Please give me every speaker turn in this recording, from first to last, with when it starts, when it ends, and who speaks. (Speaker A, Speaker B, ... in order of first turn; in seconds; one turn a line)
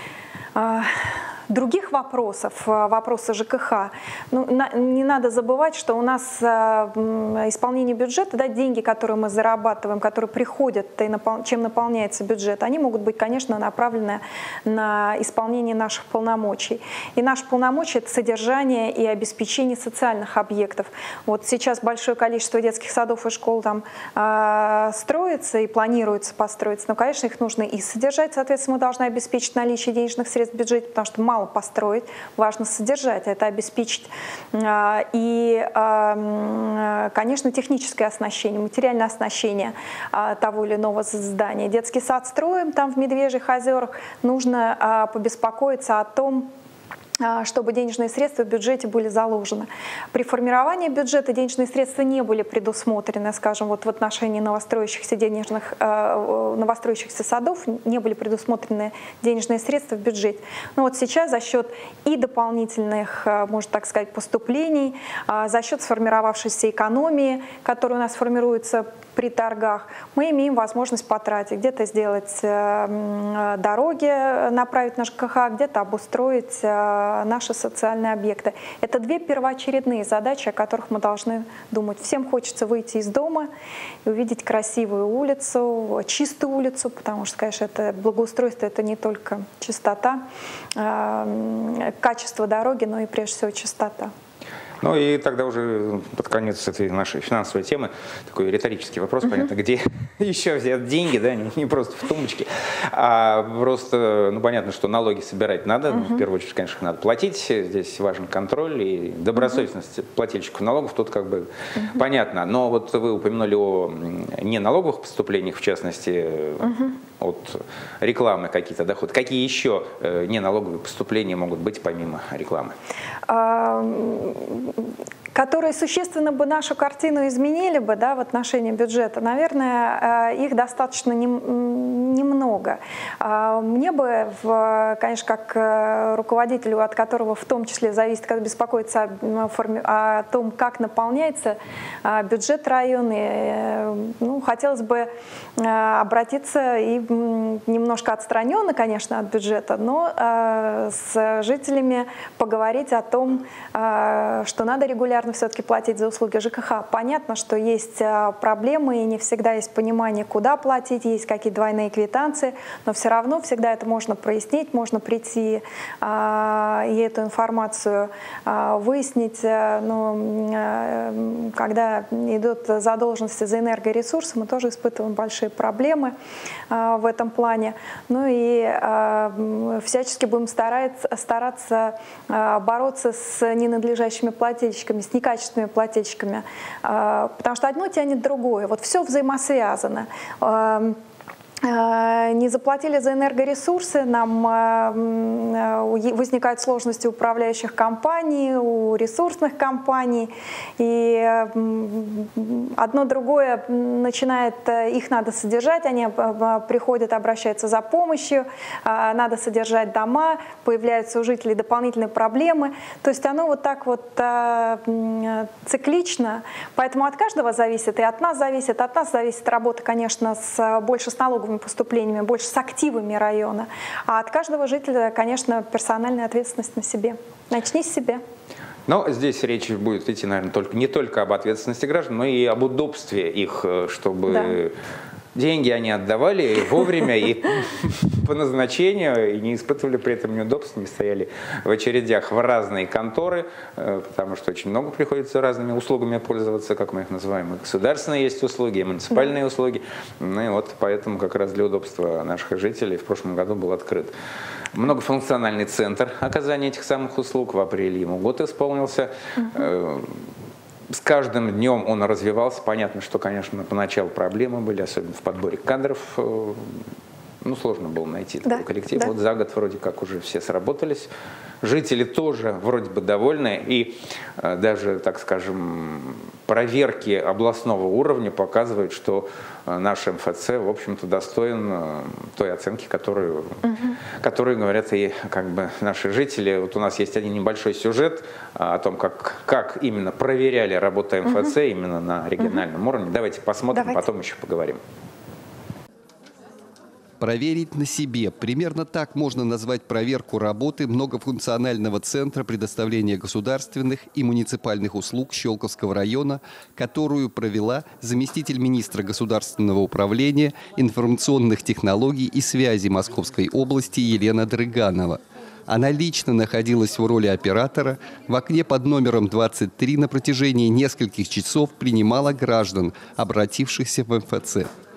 Speaker A: 0.6-46.5
Speaker A: 47.2-83.5
Speaker A: 84.0-90.2
Speaker A: 90.8-94.1
Speaker B: 94.8-122.7
Speaker A: 105.9-106.2
Speaker A: 109.4-109.6
Speaker A: 116.6-116.9
Speaker A: 123.3-176.1
Speaker A: 176.7-191.0
Speaker A: 191.6-228.2
Speaker B: 228.9-234.7
Speaker A: 234.3-234.5
Speaker B: 235.3-254.1
Speaker B: 254.7-260.2
Speaker A: 259.4-259.6
Speaker B: 260.9-266.8
Speaker B: 267.4-271.1
Speaker A: 268.4-269.1
Speaker B: 271.6-283.6
Speaker A: 283.6-284.0
Speaker B: 284.2-294.8
Speaker A: 291.2-291.5
Speaker A: 293.7-294.0
Speaker C: 297.2-324.7